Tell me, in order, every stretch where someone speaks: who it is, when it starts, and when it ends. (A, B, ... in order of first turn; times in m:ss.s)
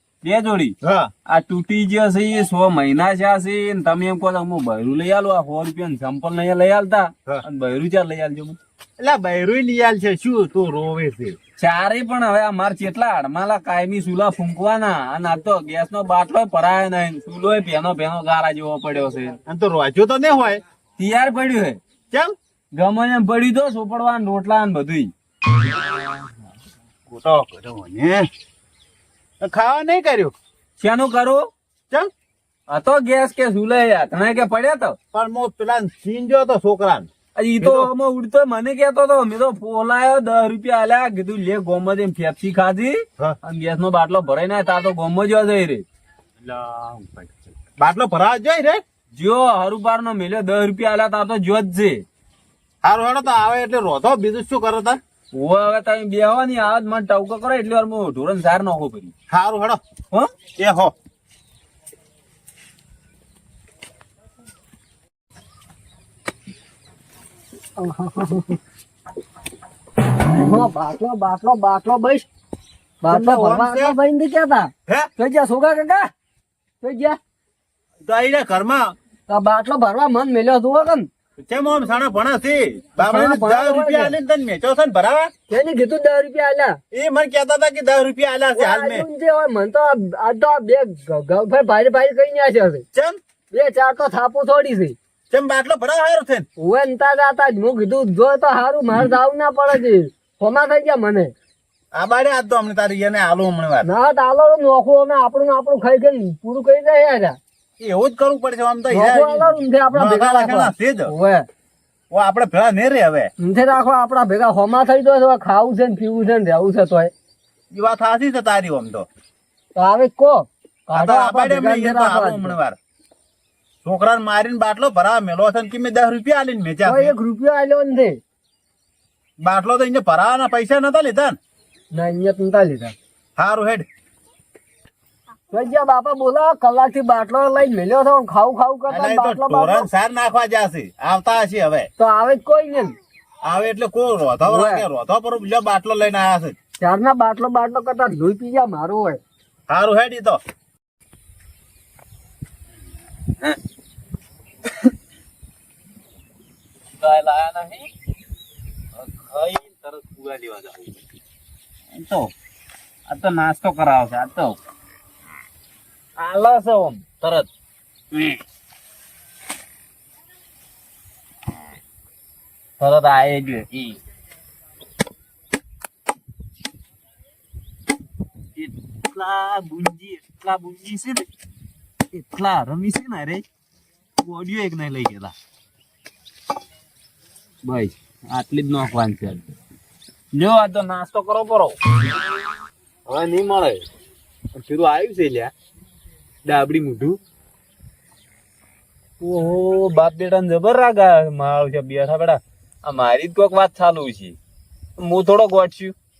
0:00.2-0:00.8 A
0:00.8-0:01.1 B
0:01.3-0:08.6 A
0:09.0-0:11.4 B
0:11.6-0:19.4 A
0:19.5-0:20.6 B
0:21.0-0:21.8 A
0:22.8-0:25.1 A
0:27.1-0:28.3 B
0:29.4-0:30.3 B
0:30.8-0:31.5 A
0:32.7-0:35.0 A
0:35.1-0:37.1 B
0:37.4-0:45.8 A
0:37.6-0:37.9 B
0:46.4-0:48.8 B
0:49.1-0:52.0 A
0:52.8-0:55.0 B
0:55.3-0:59.1 A
0:59.3-0:59.8 B
1:00.6-1:00.9 B
1:07.8-1:08.6 C
1:10.4-1:12.3 C
1:13.0-1:16.1 C
1:13.1-1:14.0 B
1:16.8-1:17.2 C
1:18.0-1:18.9 B
1:19.3-1:21.1 C
1:21.4-1:25.3 B
1:23.0-1:24.2 C
1:25.5-1:26.8 C
1:26.9-1:29.1 B
1:28.5-1:32.8 C
1:33.5-1:35.0 C
1:35.3-1:36.5 B
1:36.6-1:41.3 C
1:41.9-1:43.9 B
1:43.8-1:47.4 C
1:47.8-1:51.1 B
1:48.9-1:51.4 C
1:52.1-1:53.3 B
1:53.4-1:57.1 C
1:57.7-1:59.1 B
1:59.8-2:02.6 C
2:00.9-2:02.8 B
2:03.8-2:07.2 B
2:06.8-2:08.2 C
2:09.4-2:11.4 B
2:11.9-2:12.9 C
2:13.4-2:13.9 B
2:15.5-2:19.9 C
2:18.9-2:21.9 B
2:22.0-2:23.0 C
2:23.4-2:26.6 B
2:24.4-2:24.9 C
2:26.8-2:29.2 C
2:29.7-2:30.4 B
2:37.0-2:37.9 A
2:39.0-2:41.0 A
2:41.9-2:42.3 A
2:43.1-2:44.6 A
2:46.2-2:47.5 A
2:48.1-2:48.4 A
2:52.8-2:54.0 A
2:58.6-3:01.2 A
3:02.1-3:03.4 A
3:04.2-3:05.4 A
3:07.6-3:09.4 A
3:10.3-3:11.8 A
3:13.1-3:13.8 A
3:14.6-3:15.5 A
3:16.4-3:17.2 A
3:19.2-3:24.4 A
3:25.0-3:26.0 A